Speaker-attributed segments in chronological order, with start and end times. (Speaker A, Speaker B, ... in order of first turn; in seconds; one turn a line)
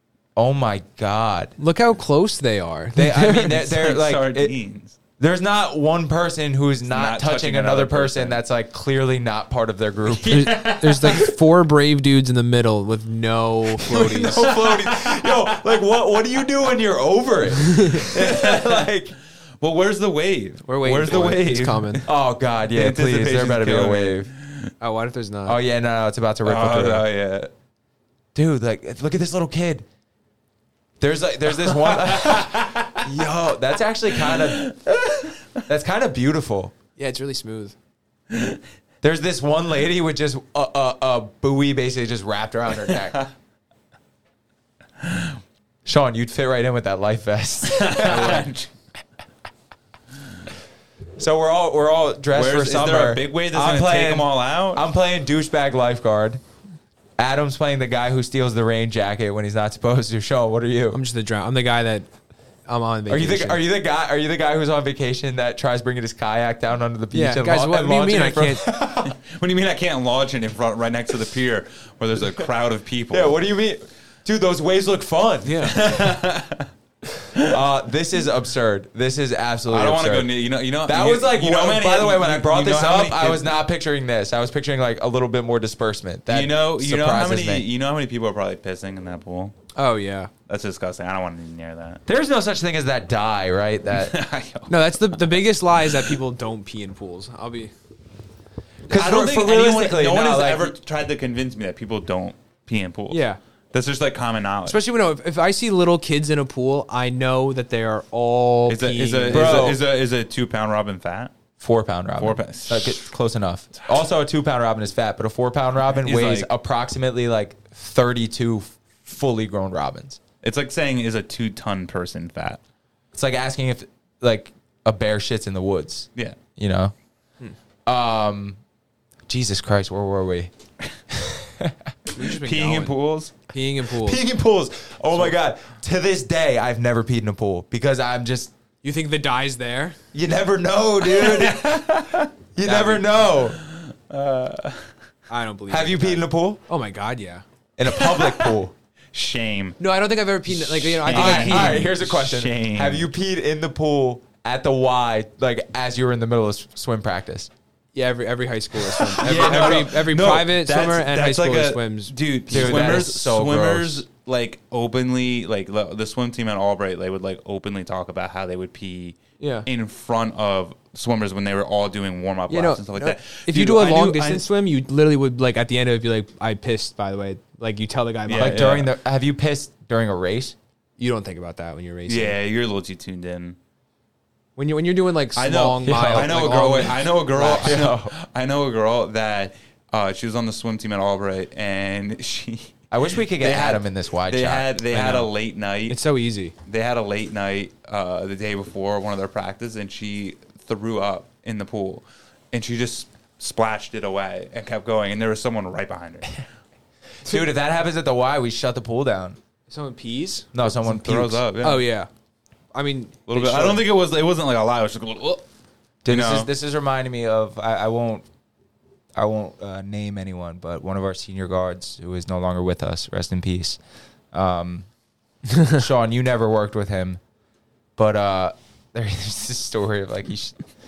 Speaker A: 0.3-1.5
Speaker B: 1.6-3.7
Speaker A: 2.9-4.5
Speaker C: 3.6-5.0
Speaker A: 5.2-10.5
Speaker C: 6.9-8.4
Speaker C: 10.1-11.3
Speaker B: 10.3-14.5
Speaker A: 13.9-19.1
Speaker C: 13.9-15.8
Speaker C: 18.0-18.9
Speaker C: 19.6-22.1
Speaker B: 20.6-22.0
Speaker A: 22.1-24.3
Speaker C: 22.7-24.7
Speaker B: 24.8-25.6
Speaker A: 25.4-27.1
Speaker C: 26.4-27.5
Speaker A: 28.3-29.9
Speaker A: 31.0-35.0
Speaker C: 31.7-33.1
Speaker C: 34.2-35.6
Speaker A: 35.6-36.7
Speaker B: 37.0-37.7
Speaker C: 38.3-38.6
Speaker A: 39.0-43.2
Speaker A: 45.8-48.5
Speaker C: 47.6-48.7
Speaker B: 48.0-48.5
Speaker A: 51.2-56.4
Speaker C: 52.3-54.9
Speaker A: 57.2-61.0
Speaker B: 60.9-62.1
Speaker B: 62.6-63.6
Speaker A: 63.1-69.2
Speaker B: 67.1-68.6
Speaker C: 69.0-73.3
Speaker A: 73.1-75.7
Speaker B: 75.4-75.8
Speaker C: 75.6-76.7
Speaker C: 77.3-77.6
Speaker A: 77.4-80.3
Speaker C: 79.7-83.5
Speaker A: 80.8-87.7
Speaker C: 86.3-89.5
Speaker B: 89.7-90.3
Speaker C: 90.5-92.0
Speaker A: 92.0-94.2
Speaker C: 93.9-96.2
Speaker B: 94.7-97.7
Speaker A: 98.9-100.7
Speaker C: 98.9-104.8
Speaker B: 103.1-103.4
Speaker B: 104.6-109.7
Speaker C: 108.7-111.3
Speaker A: 109.3-109.8
Speaker A: 111.6-120.2
Speaker C: 112.2-113.1
Speaker C: 115.9-116.5
Speaker C: 120.4-122.6
Speaker A: 123.1-126.9
Speaker A: 127.8-128.6
Speaker A: 129.3-130.5
Speaker A: 131.1-131.7
Speaker B: 132.1-132.9
Speaker C: 132.2-133.4
Speaker B: 133.5-134.2
Speaker A: 134.0-138.5
Speaker B: 138.8-140.0
Speaker A: 140.1-143.6
Speaker C: 141.0-144.9
Speaker B: 145.3-147.4
Speaker A: 145.7-146.6
Speaker A: 147.8-148.7
Speaker C: 147.9-148.6
Speaker C: 149.1-149.8
Speaker B: 149.8-151.8
Speaker C: 150.5-153.1
Speaker A: 151.1-157.5
Speaker B: 157.9-163.0
Speaker A: 159.1-160.0
Speaker C: 159.2-174.4
Speaker A: 162.5-164.1
Speaker B: 169.4-169.7
Speaker B: 172.5-178.8
Speaker C: 178.3-178.9
Speaker A: 178.4-180.6
Speaker B: 181.0-182.3
Speaker C: 182.1-183.6
Speaker B: 184.6-187.8
Speaker C: 185.3-192.8
Speaker A: 185.9-186.6
Speaker A: 187.3-188.1
Speaker A: 192.9-194.7
Speaker C: 193.3-196.0
Speaker B: 194.9-195.3
Speaker B: 195.9-196.6
Speaker C: 196.7-206.4
Speaker A: 207.2-209.4
Speaker B: 209.7-210.5
Speaker A: 210.5-211.4
Speaker C: 210.8-211.8
Speaker B: 211.6-212.1
Speaker B: 212.7-213.8
Speaker C: 213.3-215.4
Speaker A: 216.0-218.3
Speaker C: 216.1-216.5
Speaker A: 219.1-223.8
Speaker A: 224.3-224.9
Speaker A: 225.6-227.2
Speaker A: 228.0-230.6